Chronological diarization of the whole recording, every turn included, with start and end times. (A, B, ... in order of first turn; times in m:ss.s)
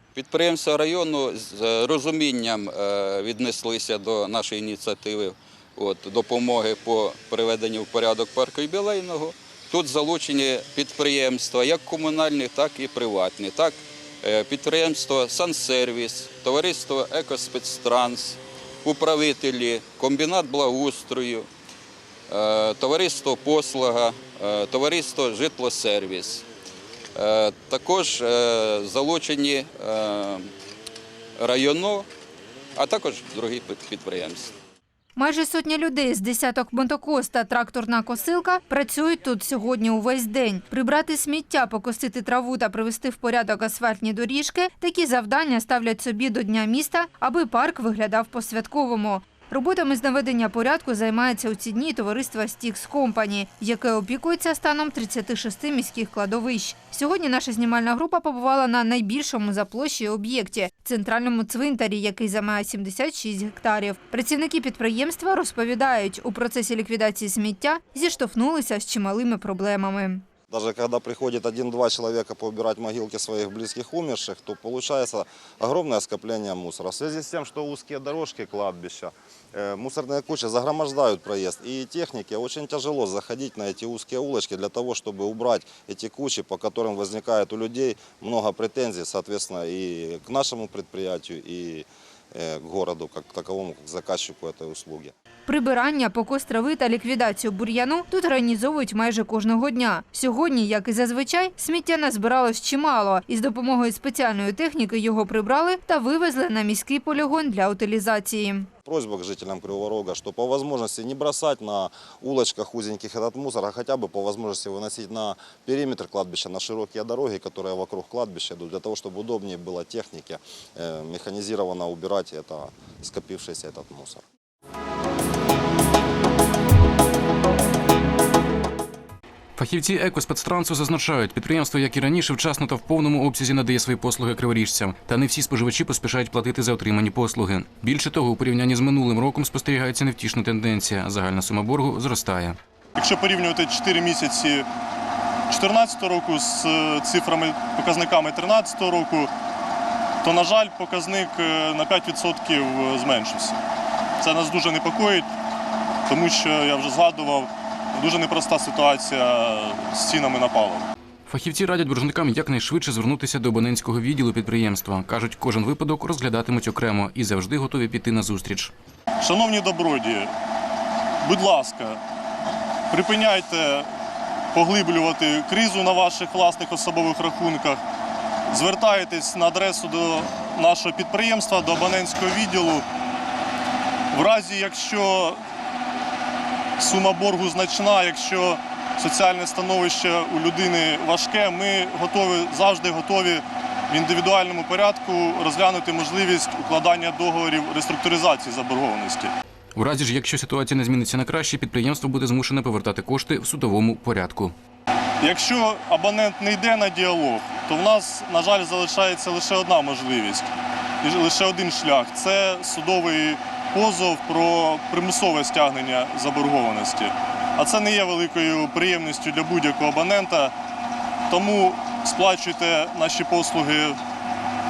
0:00.2-0:21.5 A
0:22.3-0:26.4 A
0:27.2-0:30.5 A
0:31.4-0:32.1 A
0:32.8-0:34.5 A
0:35.2-1:10.2 B
1:10.5-1:35.1 C
1:35.5-1:48.7 B
1:48.9-2:04.2 C
2:09.6-2:22.6 D
2:23.0-2:24.7 E
2:25.5-2:29.3 E
2:30.2-2:33.6 E
2:34.2-2:35.3 E
2:36.1-2:40.9 E
2:41.3-2:48.7 D
2:49.2-2:50.3 E
2:51.2-2:52.0 E
2:52.9-2:53.9 E
2:54.5-2:57.8 E
2:58.5-3:02.8 E
3:04.1-3:05.4 E
3:06.8-3:19.3 E
3:19.8-3:24.5 D
3:25.2-3:30.5 E
3:31.0-3:40.5 E
3:41.3-3:44.0 E